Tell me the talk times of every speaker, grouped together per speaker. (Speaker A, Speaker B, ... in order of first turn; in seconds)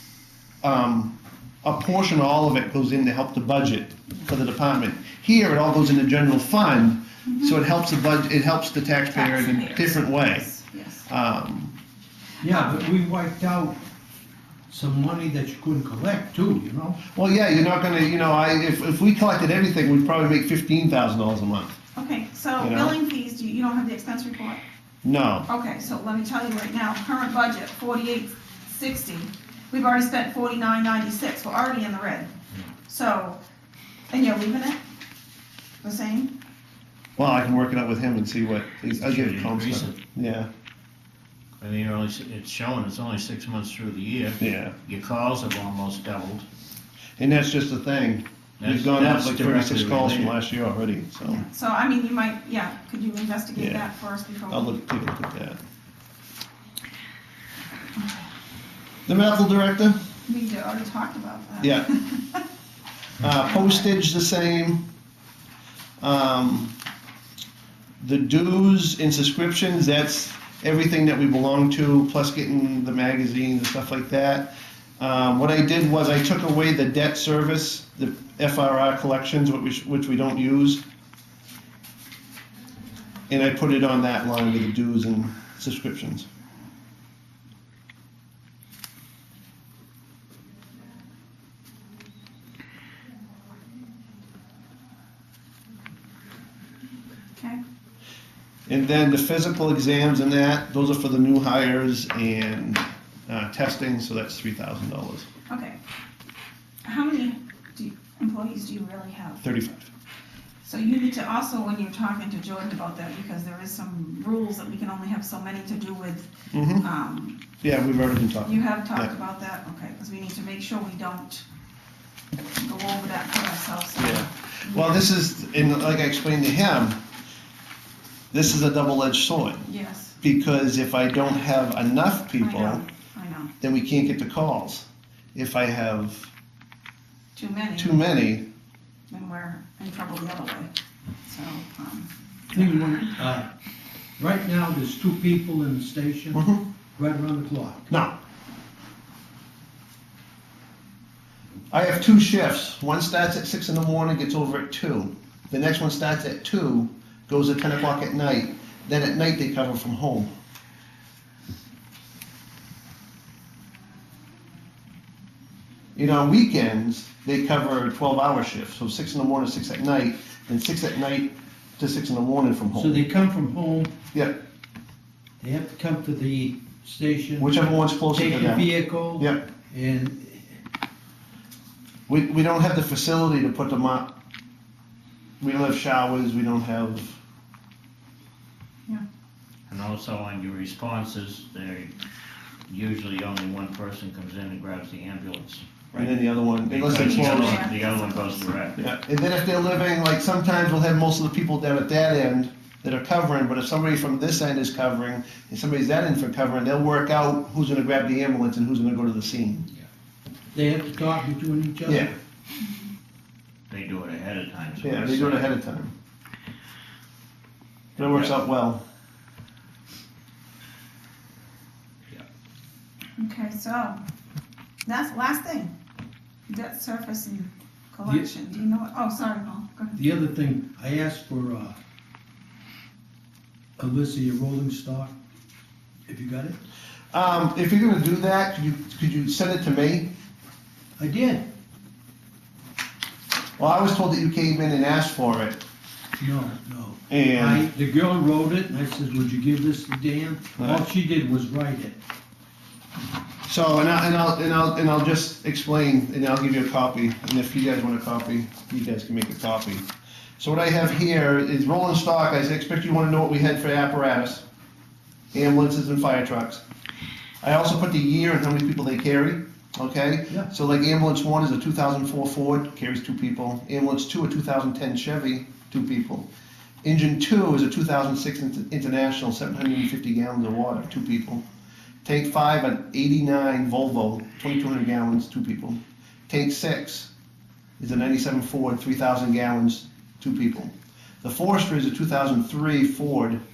Speaker A: 0.6-10.5, 11.1-11.7, 17.1-21.8, 22.6-22.9, 25.0-25.5, 37.2-40.5, 44.4-44.7, 47.2-51.4, 53.5-53.9, 54.5-55.6, 59.1-60.0, 61.6-61.9, 63.2-64.8, 66.0-66.7, 68.0-80.8, 83.3-86.2, 98.7-105.3, 109.4-109.9, 116.5-116.8, 117.6-119.1, 124.0-127.0, 128.3-129.7, 130.2-132.8, 133.6-136.3, 137.8-138.4, 146.3-146.6, 151.7-160.3, 165.9-173.0, 177.4-179.4, 182.1-184.1, 185.4-187.2, 195.9-197.7, 198.8-209.7, 211.8-212.1, 214.8-215.9, 218.0-218.8, 237.1-240.1, 243.6-245.6, 247.1-247.7, 250.6-250.8, 253.5-259.9, 260.4-264.4, 265.3-266.6, 267.4-276.3, 276.8-281.4, 282.0-287.1, 287.8-293.4
Speaker B: 7.3-7.5, 9.1-11.1, 12.4-12.8, 21.9-24.6, 25.5-32.3, 32.9-33.4, 34.1-34.8, 35.8-36.3, 51.2-54.7, 60.2-62.4, 63.4-63.9, 105.5-105.8, 106.8-109.4, 110.6-117.4, 118.4-121.4, 122.6-125.0, 129.7-130.2, 132.4-133.5, 137.3-138.0, 139.1-140.7, 141.2-142.1, 196.9-198.6, 223.2-224.0, 224.8-225.7, 226.5-230.0
Speaker C: 12.4-13.8, 14.7-17.0, 142.5-143.5, 144.2-146.4, 147.0-147.9, 172.7-173.9, 175.4-177.5, 178.1-180.5, 210.5-212.1, 229.9-231.8, 233.8-235.1, 236.1-236.6, 241.0-241.5, 246.2-252.0
Speaker D: 39.0-40.0, 41.6-46.5, 48.6-50.4, 189.7-191.9, 192.7-198.8, 213.7-215.5, 218.0-218.4